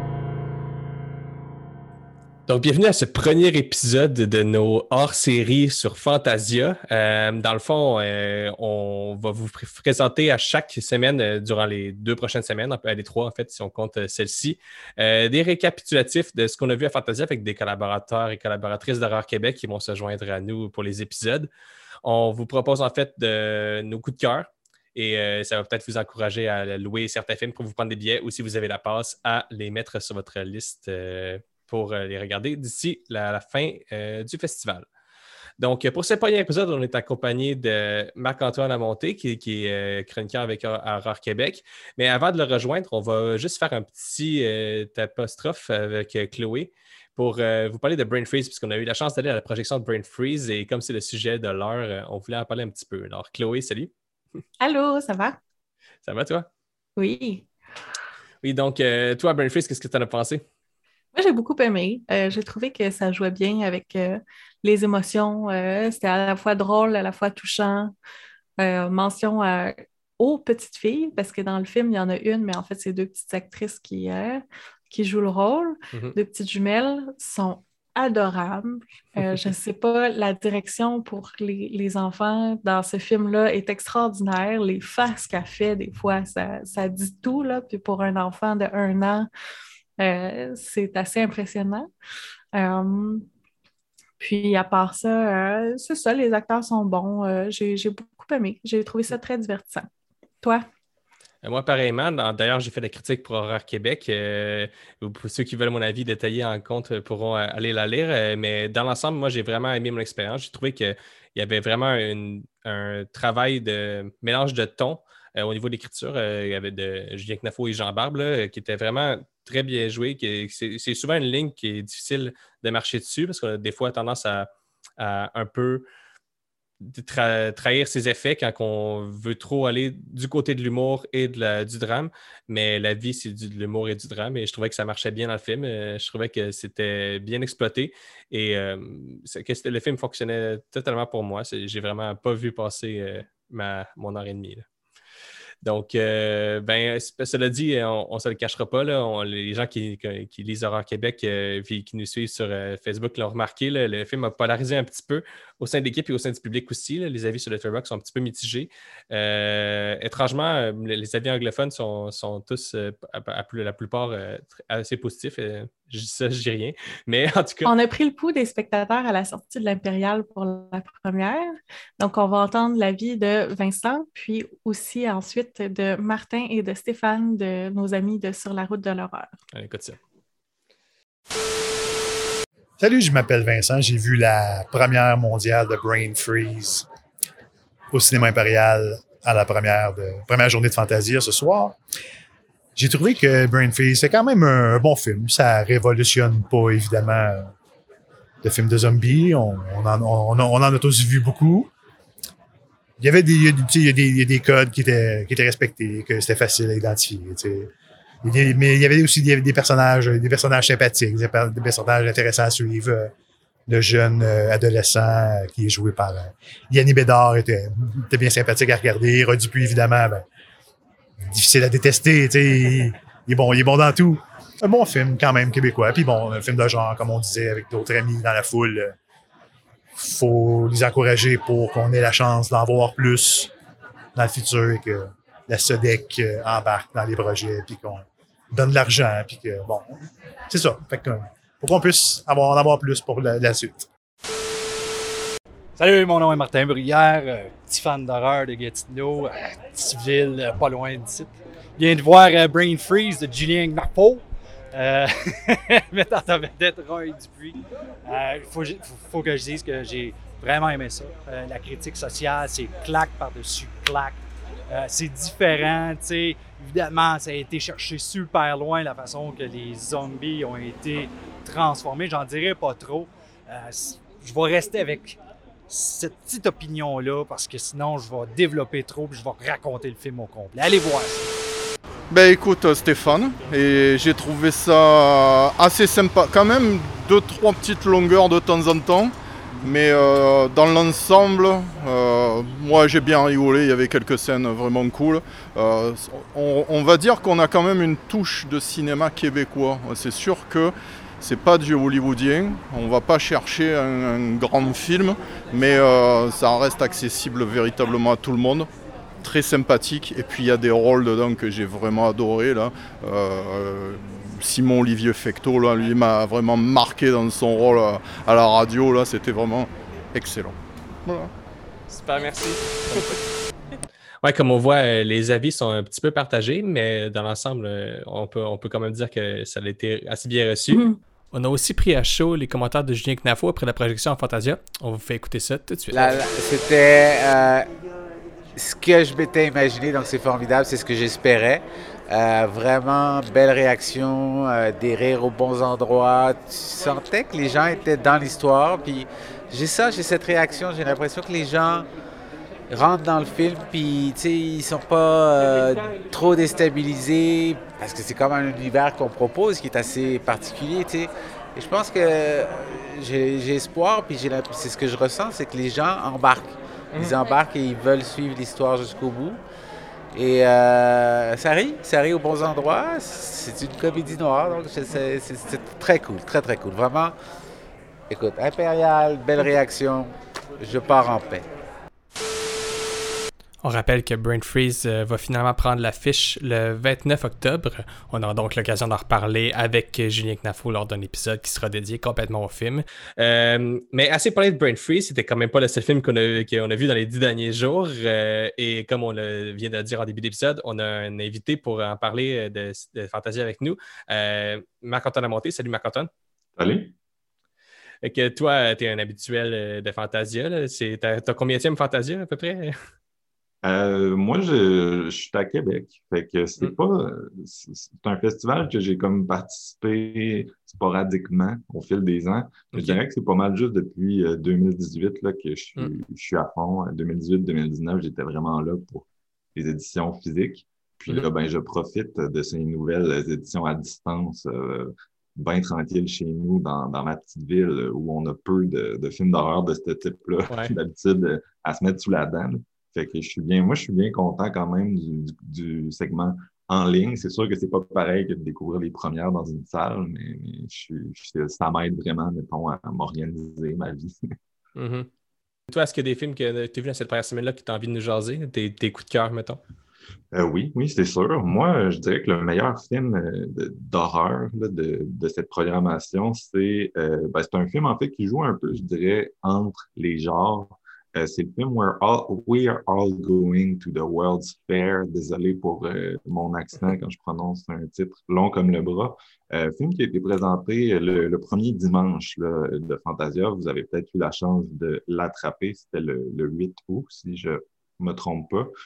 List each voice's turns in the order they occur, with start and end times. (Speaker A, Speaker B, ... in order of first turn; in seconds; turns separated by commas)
Speaker A: 2.5-21.5, Speaker A: 22.0-34.9, Speaker A: 35.6-53.9, Speaker B: 54.6-55.4, Speaker A: 56.0-56.5, Speaker B: 57.0-57.5, Speaker A: 58.4-60.4, Speaker B: 61.1-67.9, Speaker B: 68.6-89.3, Speaker B: 90.0-91.9, Speaker B: 92.5-93.3, Speaker B: 94.2-99.9, Speaker A: 101.4-124.5, Speaker A: 125.0-125.8, Speaker A: 126.8-144.7, Speaker A: 145.6-167.7, Speaker B: 167.7-179.3, Speaker A: 179.5-180.0, Speaker C: 182.8-186.9, Speaker C: 187.9-191.8, Speaker C: 192.8-197.5, Speaker C: 198.4-201.7, Speaker C: 203.0-207.7, Speaker C: 208.2-213.1, Speaker C: 213.7-220.2, Speaker C: 221.3-228.9, Speaker C: 229.9-233.5, Speaker C: 234.2-240.0, Speaker C: 240.5-243.9, Speaker D: 245.8-281.3, Speaker E: 282.1-308.7, Speaker E: 309.2-321.3, Speaker A: 321.9-323.2, Speaker A: 324.2-336.2, Speaker B: 330.7-331.0, Speaker F: 335.9-337.7, Speaker F: 338.6-351.9, Speaker F: 352.7-369.4, Speaker F: 370.1-377.1, Speaker F: 378.1-381.5, Speaker A: 383.6-406.1, Speaker G: 406.6-406.9, Speaker A: 408.0-412.8, Speaker G: 413.6-454.2, Speaker A: 422.7-423.0, Speaker A: 454.8-455.1, Speaker A: 455.7-459.6, Speaker G: 460.3-488.7